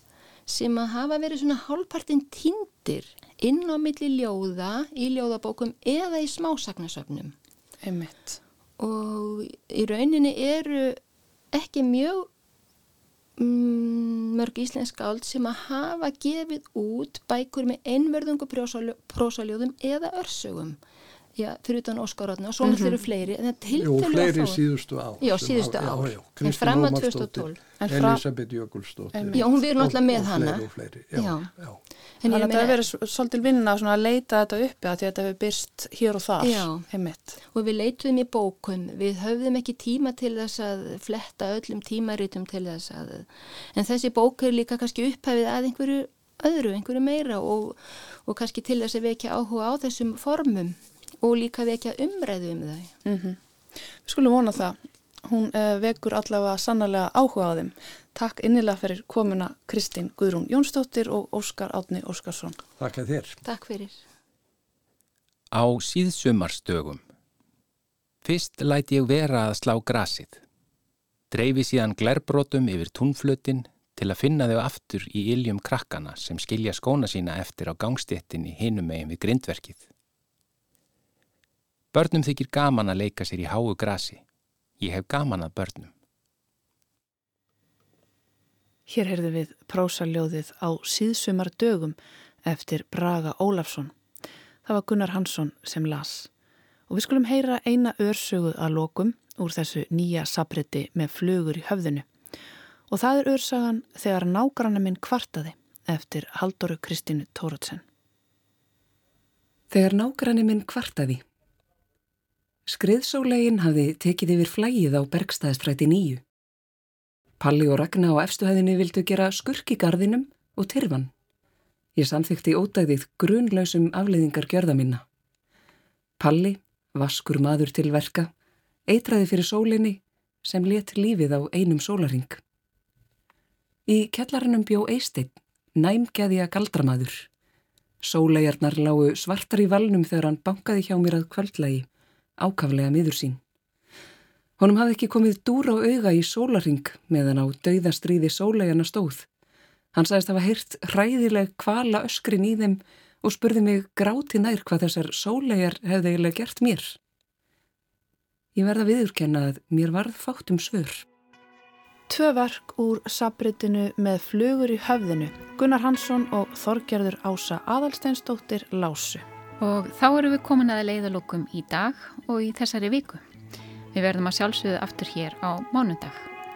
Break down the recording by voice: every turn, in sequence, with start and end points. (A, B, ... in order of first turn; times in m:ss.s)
0:00.5-0:07.3 A
0:07.8-0:08.4 B
0:08.8-0:11.0 A
0:11.5-0:12.3 A
0:13.4-0:20.8 A
0:21.4-0:24.6 A
0:22.6-0:23.0 B
0:23.7-0:31.8 C
0:25.2-0:27.6 A
0:27.8-0:28.2 B
0:29.1-0:29.4 B
0:29.3-0:30.6 A
0:31.1-0:31.5 A
0:32.2-0:32.8 A
0:32.3-0:37.4 B
0:36.4-0:36.9 A
0:37.5-0:52.9 A
0:53.0-0:53.4 B
0:54.0-1:02.6 B
1:02.8-1:03.4 C
1:03.4-1:04.0 A
1:05.5-1:07.0 D
1:08.2-1:10.4 D
1:11.3-1:19.8 D
1:21.9-1:24.2 D
1:24.8-1:25.9 D
1:28.9-1:33.9 B
1:34.6-1:36.3 B
1:36.9-1:42.0 B
1:42.9-1:47.8 B
1:49.7-1:51.2 E
1:52.7-1:56.2 E
1:57.4-2:01.1 E
2:02.0-2:05.0 E
2:06.2-2:08.3 E
2:08.9-2:12.4 E
2:13.9-2:17.3 E
2:18.0-2:21.9 E
2:22.4-2:23.4 E
2:24.6-2:29.2 E
2:29.9-2:37.0 E
2:38.5-2:41.0 E
2:42.1-2:49.2 B
2:49.6-2:53.2 F
2:53.9-2:56.3 F